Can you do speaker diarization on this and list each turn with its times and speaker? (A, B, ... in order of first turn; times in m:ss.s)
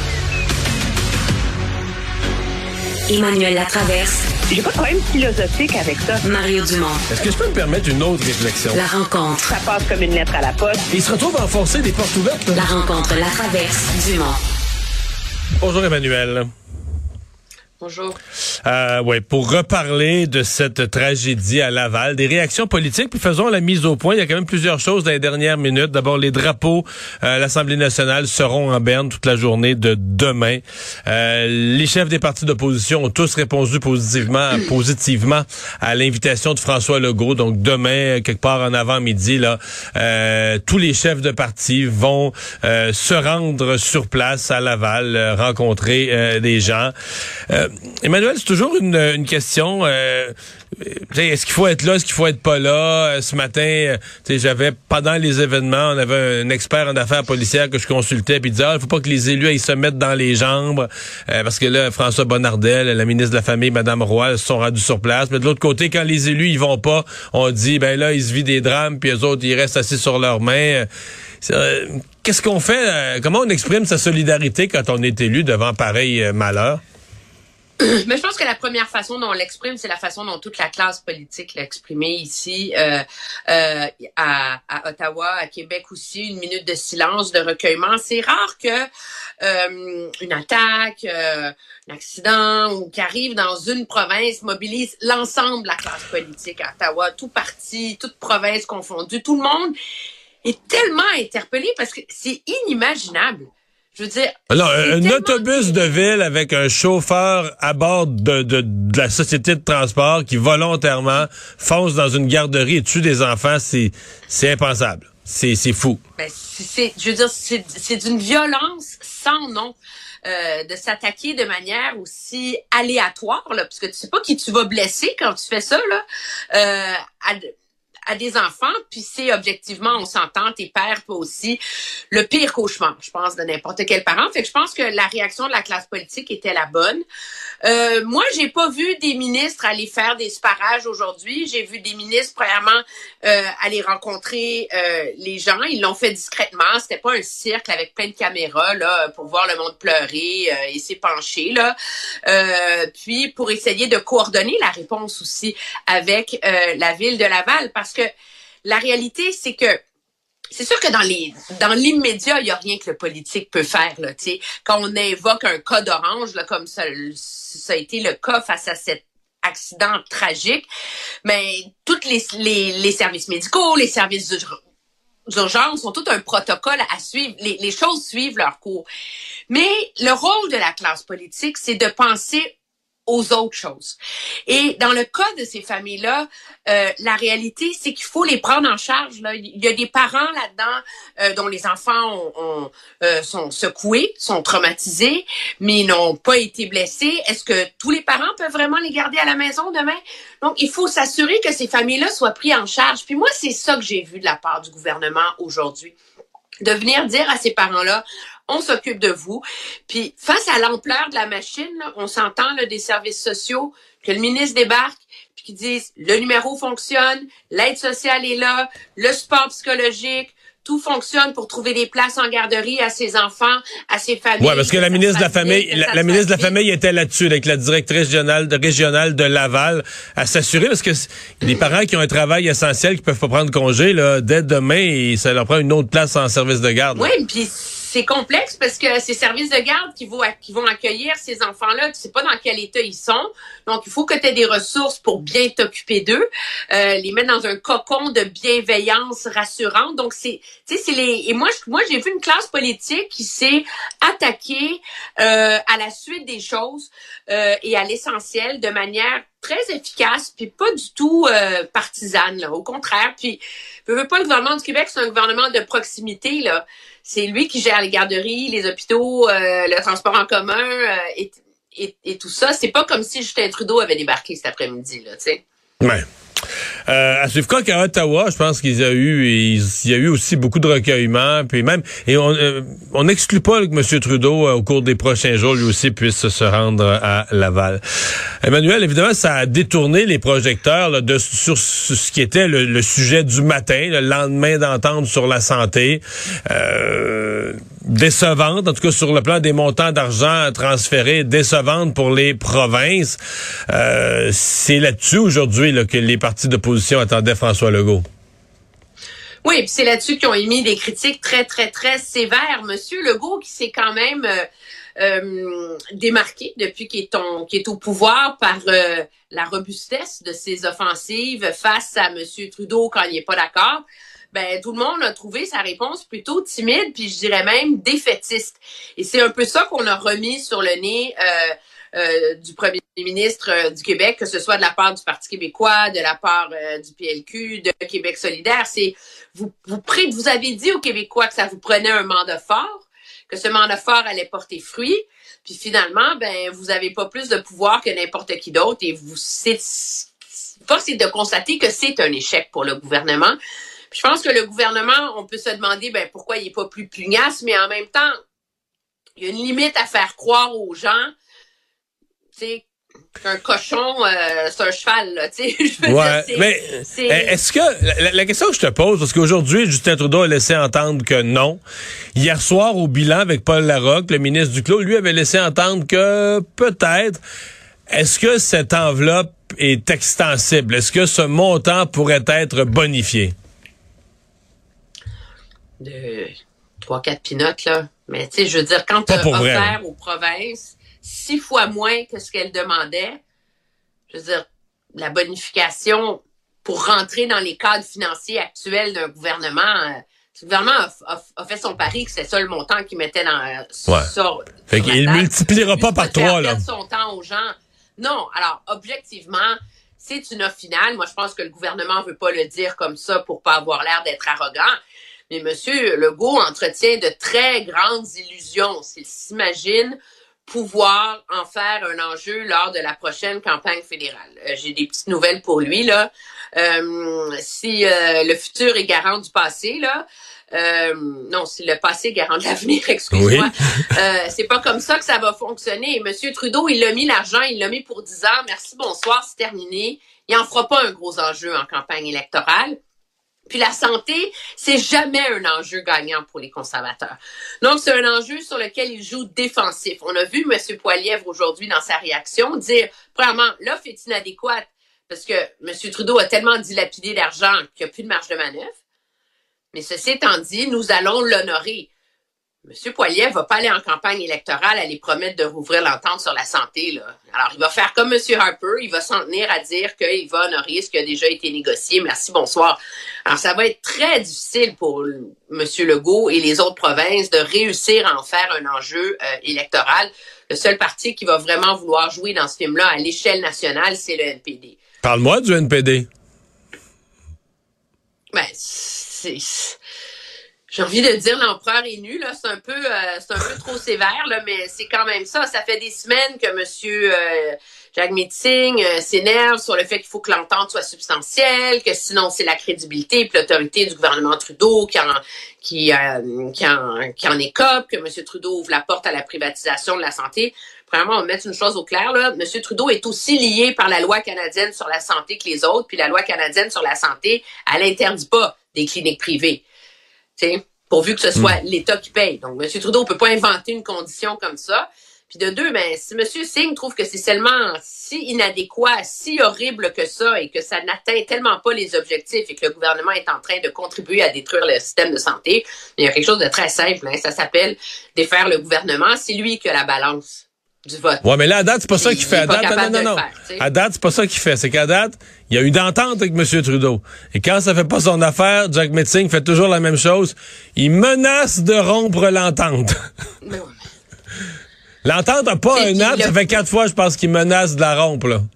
0:03.1-0:04.2 A
0:04.5-0:06.2 B
0:06.2-0:07.0 A
0:07.1-0:08.8 C
0:08.7-0:09.5 A
0:09.5-0:10.8 B
0:10.9-0:12.6 C
0:12.6-0:14.4 A
0:15.6-0:16.5 C
0:17.8-0:18.2 D
0:18.6-0:46.9 C
0:47.5-1:10.9 C
1:11.4-1:16.8 C
1:17.8-1:28.9 D
1:29.4-1:39.7 D
1:40.4-1:46.0 D
1:44.5-1:56.0 C
1:56.2-2:07.5 D
2:08.1-2:11.6 D
2:12.1-2:17.0 D
2:17.6-2:31.7 D
2:32.3-2:38.1 D
2:38.6-2:39.8 D
2:40.5-2:50.7 D
2:51.2-2:54.6 D
2:55.3-2:58.9 D
2:59.5-3:02.6 D
3:03.1-3:26.0 D
3:26.6-3:46.6 D
3:44.4-3:57.1 C
3:56.9-4:35.4 D
4:36.9-4:47.8 C
4:48.4-5:03.2 C
5:03.7-5:08.0 C
5:09.4-5:14.5 D
5:15.0-5:53.4 D
5:53.9-5:58.1 D
5:59.2-6:01.1 D
6:02.4-6:02.6 D
6:03.2-6:07.4 D
6:05.8-6:11.6 C
6:12.2-6:17.2 C
6:17.9-6:23.3 C
6:25.8-6:33.2 D
6:29.1-6:29.8 C
6:34.1-6:54.8 D
6:44.7-6:46.6 C
6:55.3-7:22.8 D
7:13.1-7:13.5 C
7:23.5-7:38.8 D
7:39.7-7:41.9 D
7:42.6-8:04.8 D
8:05.0-8:06.1 C
8:08.3-8:09.8 D
8:10.7-8:39.6 D
8:40.4-9:01.2 D
9:01.2-9:12.9 C
9:01.9-9:03.7 D
9:13.4-9:13.8 D
9:15.0-9:18.4 C
9:15.7-9:16.6 D